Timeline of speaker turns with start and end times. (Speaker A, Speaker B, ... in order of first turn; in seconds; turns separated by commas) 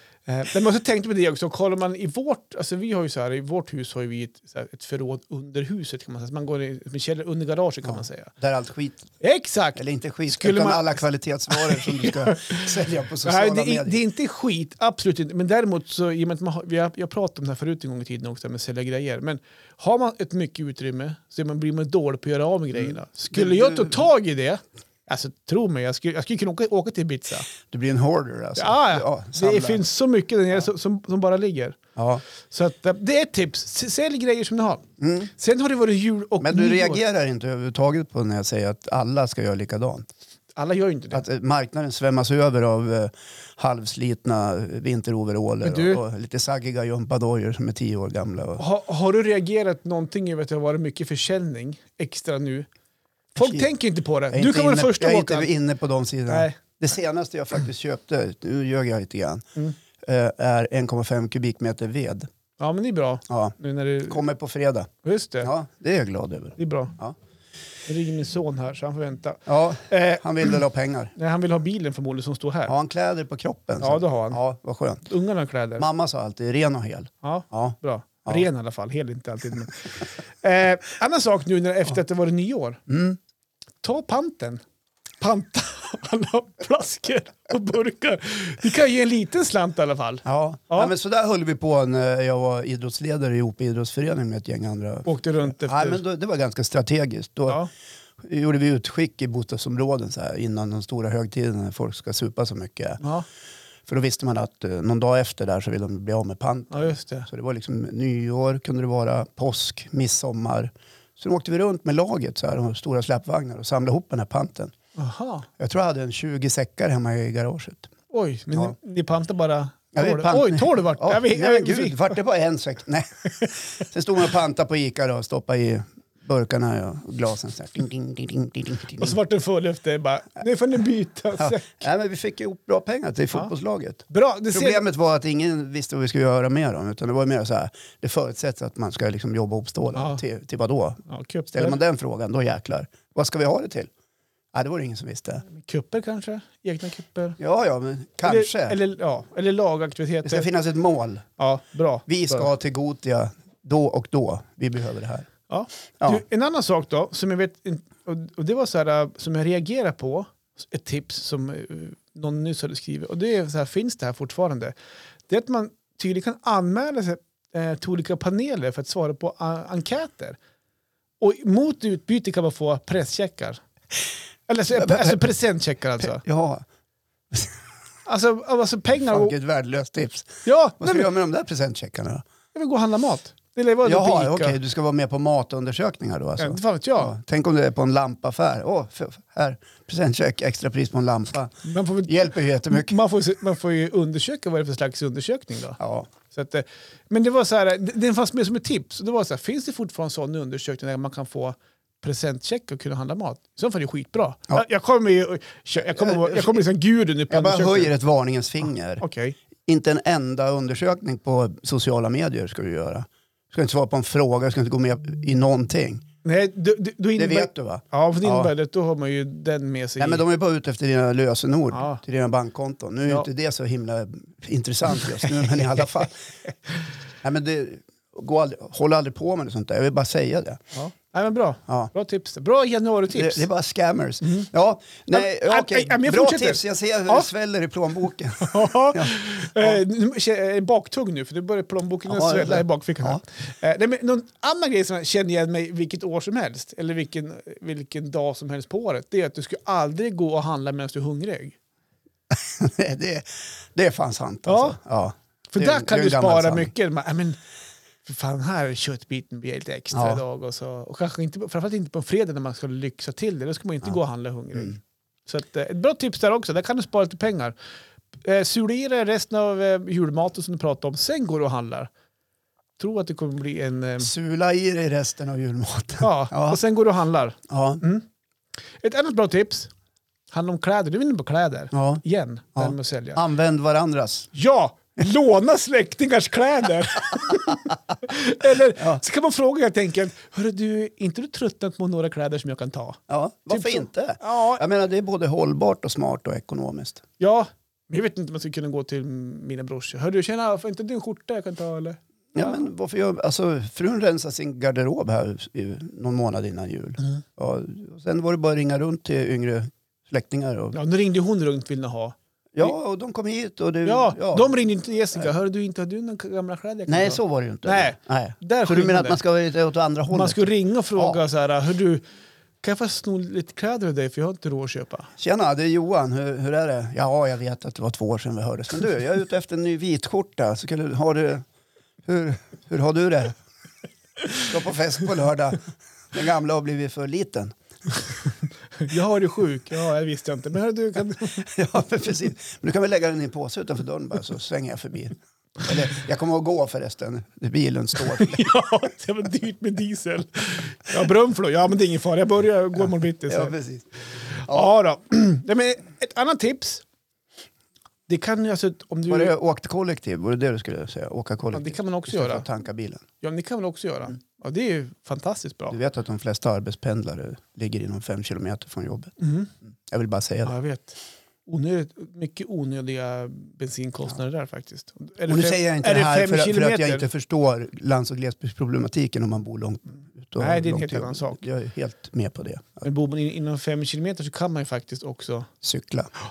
Speaker A: 0.3-8.3, Speaker B: 7.8-9.1, Speaker A: 9.2-12.7, Speaker B: 9.8-14.0, Speaker A: 13.2-27.5, Speaker B: 22.8-24.0, Speaker B: 27.7-29.8, Speaker A: 28.6-31.8, Speaker B: 32.0-32.2, Speaker A: 32.4-34.8, Speaker B: 35.0-35.3, Speaker A: 35.4-37.0, Speaker B: 36.4-40.1, Speaker A: 40.6-41.2, Speaker B: 41.1-48.6, Speaker A: 45.6-46.0, Speaker A: 48.6-52.7, Speaker A: 53.4-55.5, Speaker B: 53.4-53.7, Speaker B: 54.3-59.5, Speaker A: 56.3-56.6, Speaker B: 60.0-62.3, Speaker A: 62.6-64.2, Speaker B: 63.3-63.5, Speaker B: 64.1-64.9, Speaker A: 65.0-65.5, Speaker B: 65.4-67.2, Speaker A: 66.6-66.9, Speaker A: 67.9-70.6, Speaker B: 69.5-71.1, Speaker A: 71.2-72.7, Speaker B: 72.7-75.1, Speaker A: 73.8-74.4, Speaker A: 75.1-75.9, Speaker B: 75.8-78.5, Speaker A: 77.2-82.8, Speaker B: 82.9-83.2, Speaker A: 83.8-84.6, Speaker A: 85.2-90.9, Speaker B: 90.2-97.6, Speaker A: 95.1-96.0, Speaker B: 98.2-103.0, Speaker A: 103.0-103.3, Speaker B: 103.9-114.7, Speaker A: 106.7-107.3, Speaker A: 115.0-115.5, Speaker B: 115.6-117.9, Speaker A: 118.1-122.2, Speaker B: 119.9-129.2, Speaker A: 129.0-131.8, Speaker B: 131.4-143.9, Speaker A: 134.1-134.8, Speaker A: 139.9-140.2, Speaker A: 141.1-141.8, Speaker B: 144.5-145.4, Speaker A: 145.5-147.4, Speaker B: 147.4-148.8, Speaker A: 148.2-150.5, Speaker B: 150.2-151.3, Speaker A: 151.4-152.5, Speaker B: 152.1-155.3, Speaker A: 155.5-164.8, Speaker A: 165.3-170.4, Speaker A: 171.2-173.6, Speaker A: 174.5-176.2, Speaker B: 174.7-175.2, Speaker B: 176.0-176.7, Speaker A: 178.1-179.4, Speaker B: 179.1-182.2, Speaker A: 180.4-181.1, Speaker A: 182.5-184.6, Speaker B: 183.8-193.0, Speaker A: 186.4-187.1, Speaker A: 191.7-207.9, Speaker B: 195.8-196.1, Speaker B: 205.9-206.6, Speaker B: 207.3-209.0, Speaker A: 209.0-209.4, Speaker B: 209.7-216.0, Speaker A: 216.2-220.2, Speaker B: 217.2-218.5, Speaker B: 220.0-226.2, Speaker A: 221.7-222.0, Speaker B: 227.2-230.6, Speaker A: 230.7-233.5, Speaker B: 233.1-239.8, Speaker A: 234.2-234.5, Speaker A: 235.1-237.3, Speaker A: 238.4-251.6, Speaker B: 242.1-243.2, Speaker B: 252.3-256.7, Speaker A: 254.5-254.8, Speaker A: 255.5-257.4, Speaker A: 258.1-267.6, Speaker B: 259.9-260.2, Speaker A: 268.2-271.9, Speaker A: 272.8-274.1, Speaker B: 274.0-276.6, Speaker A: 276.0-278.1, Speaker B: 277.5-277.8, Speaker A: 278.8-279.7, Speaker A: 280.3-283.2, Speaker B: 281.7-282.0, Speaker B: 282.6-284.3, Speaker A: 284.3-293.0, Speaker B: 293.1-297.0, Speaker A: 293.5-294.6, Speaker A: 297.2-302.6, Speaker B: 302.3-310.8, Speaker A: 310.7-312.8, Speaker B: 312.6-314.5, Speaker A: 313.9-319.2, Speaker B: 316.9-321.2, Speaker A: 320.1-322.0, Speaker A: 322.6-325.1, Speaker B: 325.2-331.4, Speaker B: 332.1-333.4, Speaker B: 334.4-335.6, Speaker B: 336.1-337.5, Speaker A: 338.8-341.5, Speaker B: 341.4-348.5, Speaker A: 348.0-353.6, Speaker B: 353.3-353.9, Speaker A: 354.4-356.9, Speaker A: 358.1-359.3, Speaker B: 359.1-363.0, Speaker A: 361.5-362.5, Speaker A: 363.2-365.8, Speaker B: 365.7-369.1, Speaker A: 369.2-369.5, Speaker B: 369.9-370.5, Speaker A: 370.4-377.1, Speaker B: 375.3-382.8, Speaker A: 380.4-381.4, Speaker A: 382.8-385.5, Speaker B: 385.6-386.1